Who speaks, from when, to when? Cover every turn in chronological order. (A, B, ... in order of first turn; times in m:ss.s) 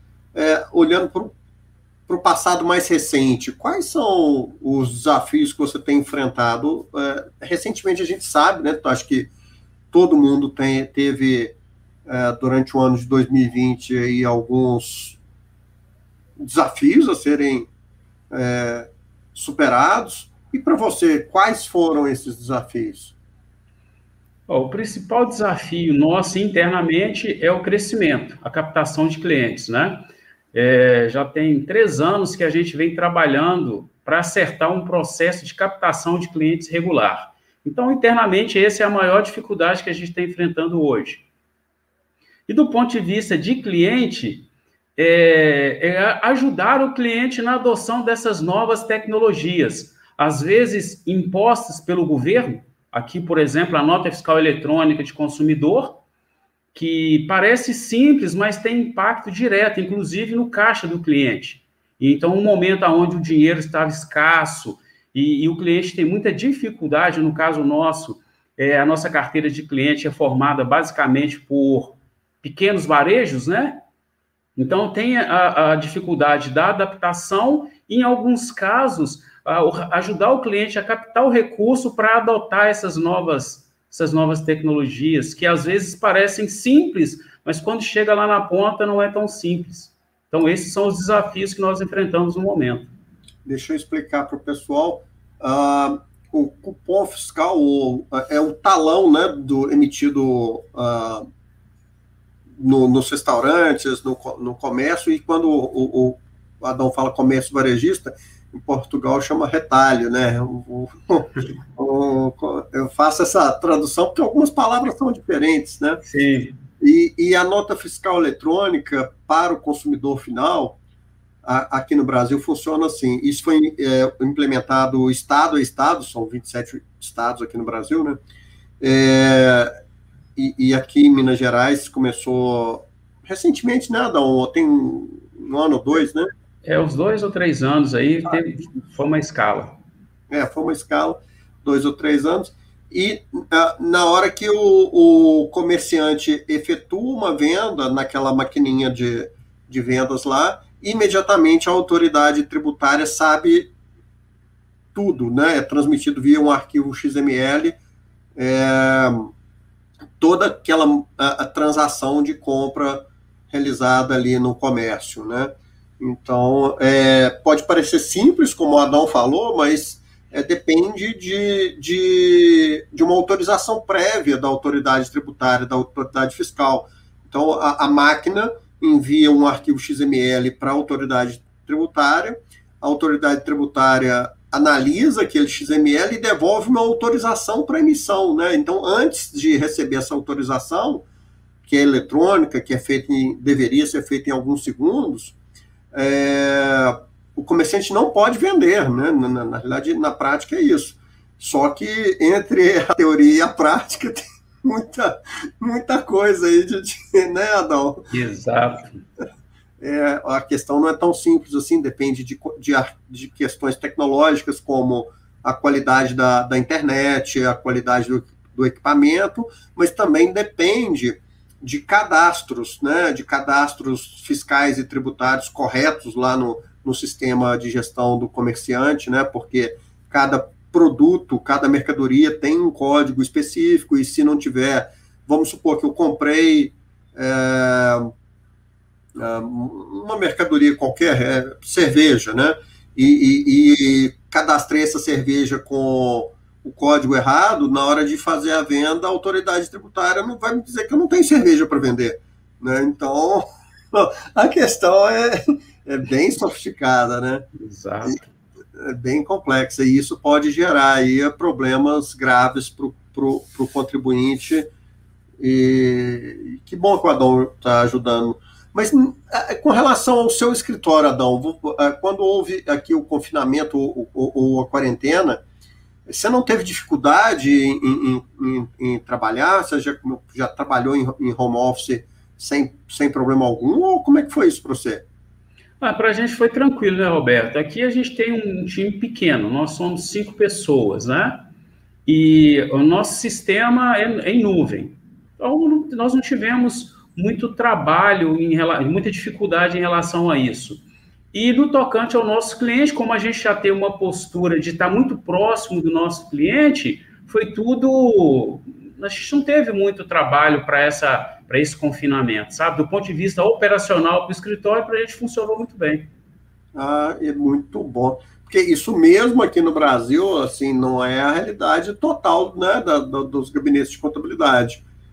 0:00.3-0:01.3 A
0:02.1-0:09.3 A
0:09.9-0:11.6 A
0:12.1-0:15.2 A
0:16.4-0:17.7 A
0:18.3-0:23.2 A
0:24.5-0:41.2 B
0:42.5-0:56.0 B
0:56.7-1:13.8 B
1:14.6-1:32.9 B
1:33.5-1:41.2 A
1:42.6-1:56.0 A
1:56.0-1:56.6 B
1:56.8-2:00.8 A
2:01.4-2:08.2 A
2:08.8-2:09.7 A
2:10.4-2:16.3 A
2:16.6-2:19.8 B
2:20.3-2:33.7 A
2:35.0-2:37.8 A
2:38.4-2:39.3 A
2:40.2-3:11.0 A
3:11.7-3:15.4 A
3:15.9-3:28.0 A
3:28.1-3:29.0 B
3:29.8-3:58.1 A
3:59.2-4:17.5 A
4:17.6-4:18.3 B
4:18.8-4:24.7 A
4:25.4-4:35.4 A
4:36.1-4:45.0 A
4:45.8-4:51.4 B
4:52.1-5:16.1 B
5:16.8-5:24.8 A